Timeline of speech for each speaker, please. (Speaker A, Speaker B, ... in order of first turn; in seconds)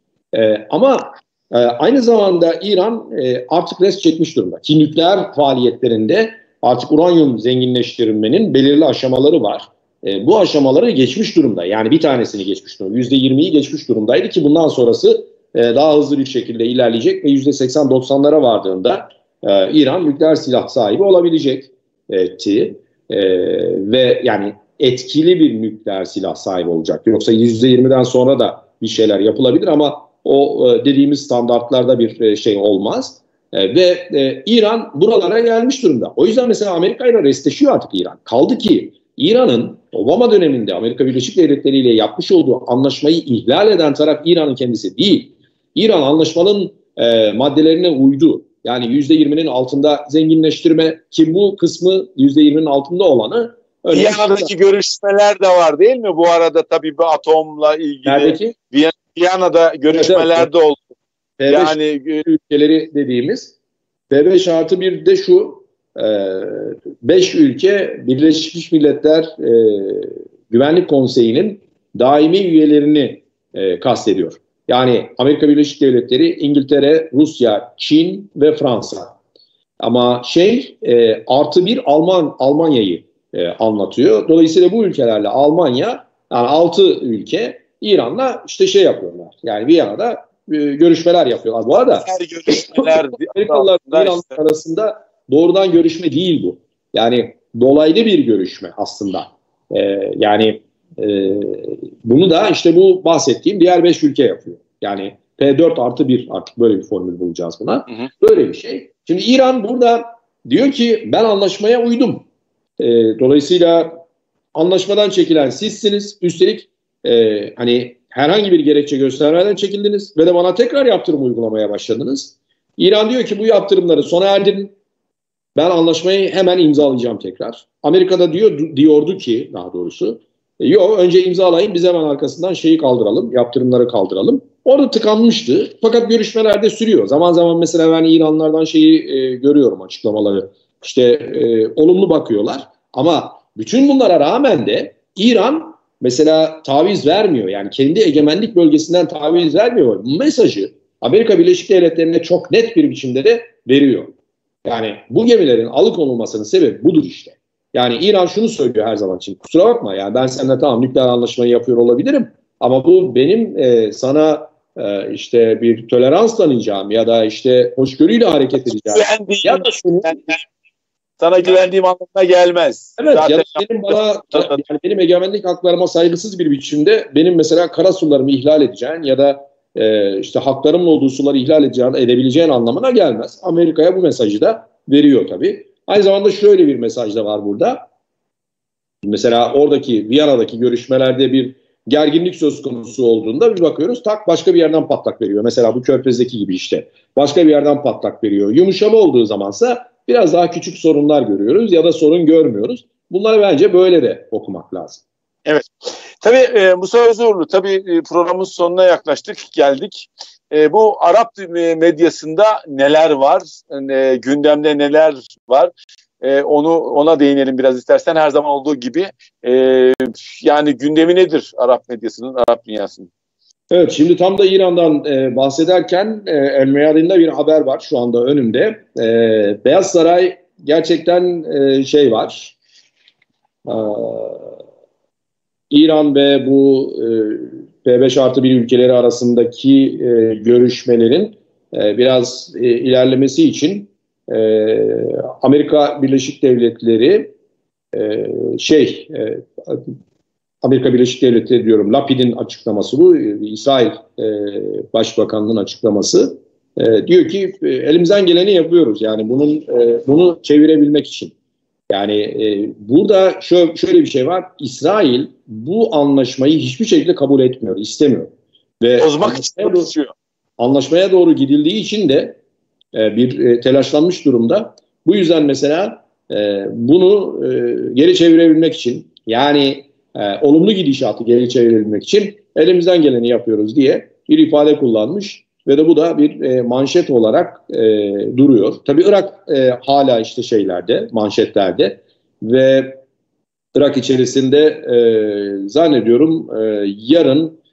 Speaker A: 0.3-54.5, 58.0-58.5, 59.9-60.5, 61.4-63.5, 64.1-79.2, 79.8-112.3, 112.8-114.0, 114.5-124.7, 125.5-154.1, 154.6-170.3, 173.0-187.9, 189.0-205.0, 223.7-232.6, 233.7-234.5, 235.7-247.3, 247.9-249.9, 250.6-261.3, 261.9-269.9, 270.6-272.4, 272.9-293.0, 293.7-297.6
Speaker B: 53.9-60.8, 61.5-62.2, 92.0-94.3, 168.7-170.4, 171.2-174.6, 206.2-223.1, 269.0-270.1